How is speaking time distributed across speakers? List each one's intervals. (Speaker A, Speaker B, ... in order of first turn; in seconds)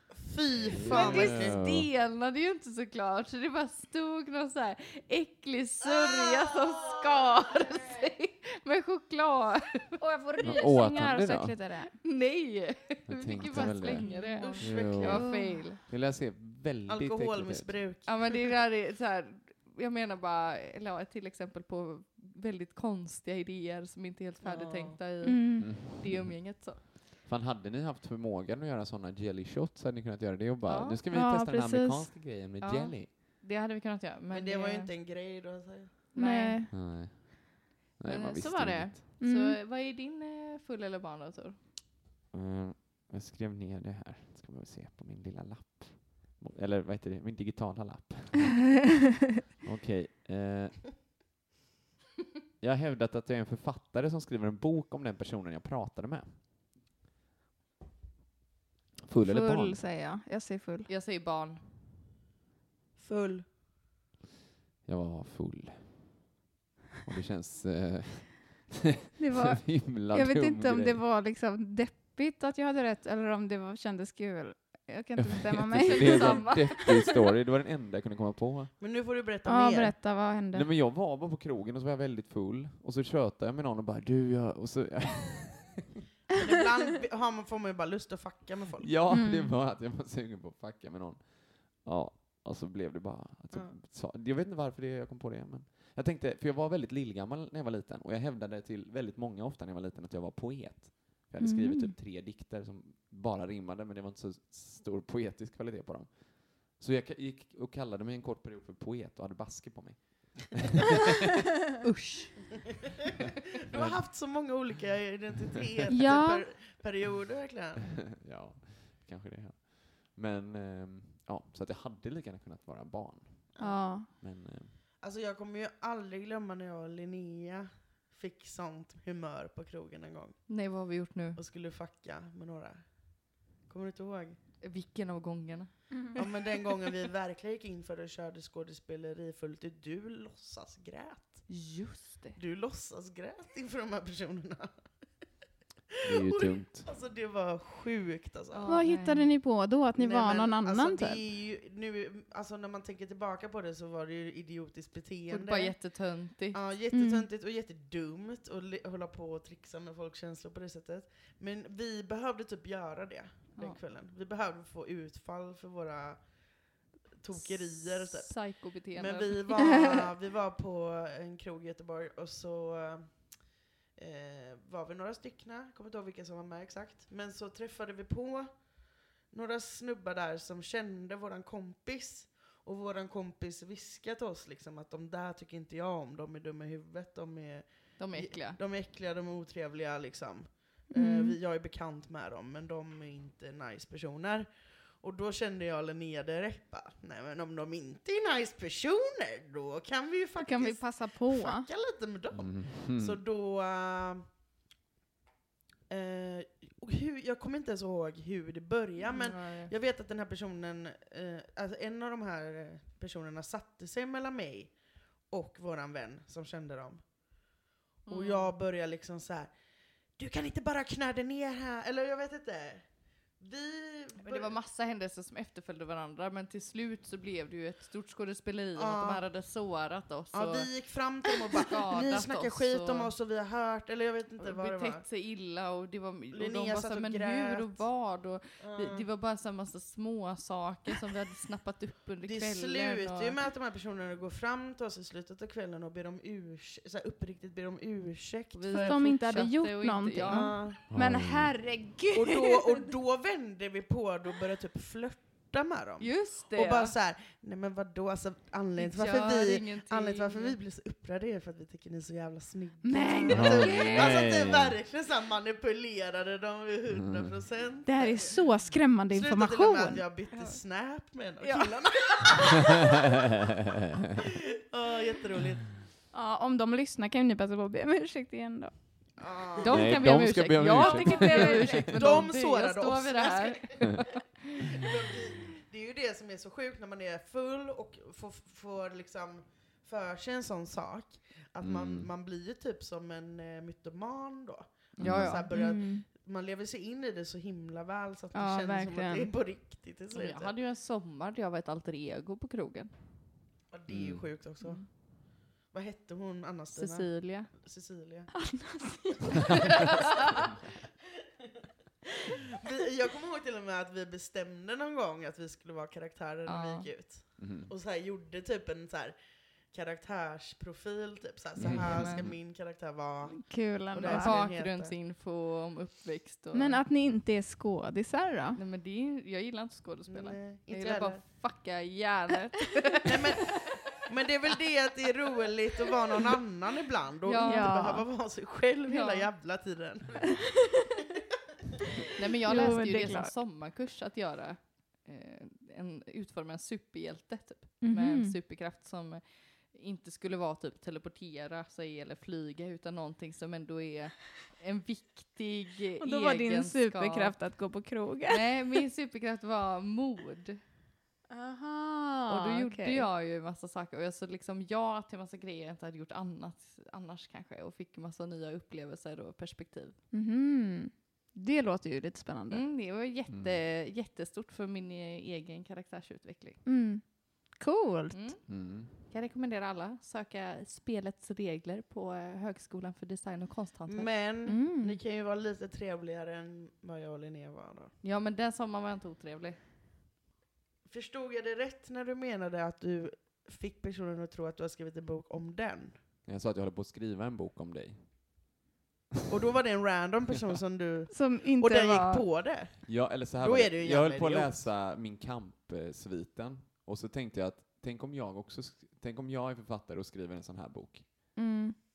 Speaker A: 0.1-1.6, 14.4-15.2, 16.9-18.4, 24.4-25.0, 34.3-36.0, 63.0-63.5, 78.8-80.0, 86.3-88.9, 113.7-118.0, 123.5-123.8, 125.0-130.4, 131.3-134.4, 136.1-141.5, 142.3-144.7, 146.1-148.7, 149.9-155.8, 156.5-166.7, 167.2-204.3, 205.9-224.5, 228.8-229.2, 230.3-235.0, 236.3-237.8, 238.6-239.0, 242.2-249.1, 250.3-250.8, 252.1-268.4, 269.1-272.8, 274.7-275.7, 279.2-280.2, 281.9-283.7, 284.7-300.5, 303.7-308.4, 312.6-319.2, 319.7-324.9, 330.1-331.2, 333.0-340.5, 383.9-387.9, 390.9-396.0, 399.3-404.6
Speaker B: 0.7-1.9, 10.4-11.6, 13.1-14.1, 14.6-15.3, 15.9-17.9, 25.6-33.1, 36.7-39.0, 42.3-48.7, 49.6-50.9, 52.6-56.4, 59.0-59.8, 64.8-66.2, 67.0-68.7, 69.3-71.0, 75.2-78.7, 80.5-85.9, 88.8-110.7, 113.7-114.6, 118.2-124.8, 146.0-146.9, 202.3-203.2, 250.9-251.5, 263.3-264.8, 279.7-282.1, 291.6-292.1, 295.0-295.4, 303.9-304.3, 317.4-317.7, 321.6-322.4, 373.3-373.6, 378.5-378.9, 396.2-398.5, 402.8-411.4
Speaker C: 0.8-10.0, 11.9-15.8, 18.0-26.8, 30.6-31.0, 32.6-34.9, 36.1-36.6, 38.0-41.6, 60.9-61.7, 75.8-76.9, 111.8-112.5, 130.5-131.4, 134.6-136.2, 141.5-142.4, 148.5-149.3, 155.3-156.6, 167.3-169.9, 188.0-188.6, 209.0-209.7, 218.1-218.5, 224.2-230.9, 231.6-233.1, 234.4-243.4, 248.5-250.5, 256.0-256.9, 258.8-260.6, 270.3-270.6, 279.6-284.2, 295.0-295.5, 300.1-302.9, 304.6-304.9, 306.7-307.5, 316.4-317.1, 321.6-322.3, 324.0-326.8, 328.6-333.0, 337.2-337.8, 338.9-339.3, 342.1-357.4, 358.3-360.6, 362.3-370.0, 372.5-376.6, 378.1-384.1, 388.0-389.6
Speaker D: 10.0-11.9, 13.5-14.6, 15.2-15.6, 25.2-25.7, 31.1-32.1, 36.1-36.7, 39.2-39.6, 59.2-60.9, 69.2-76.9, 79.5-80.7, 89.1-89.5, 101.4-101.9, 115.9-116.4, 123.6-124.1, 148.7-151.2, 156.9-157.2, 190.9-191.3, 200.4-201.7, 248.7-252.8, 262.8-264.1, 267.8-270.0, 276.1-278.7, 280.8-281.9, 295.5-296.0, 298.3-299.3, 308.4-309.6, 323.3-324.4, 326.5-328.6, 337.4-338.0, 342.4-343.3, 347.8-348.4, 356.0-358.8, 361.3-363.1, 370.1-372.6, 376.6-378.3, 384.4-385.0, 401.1-402.2, 411.3-411.8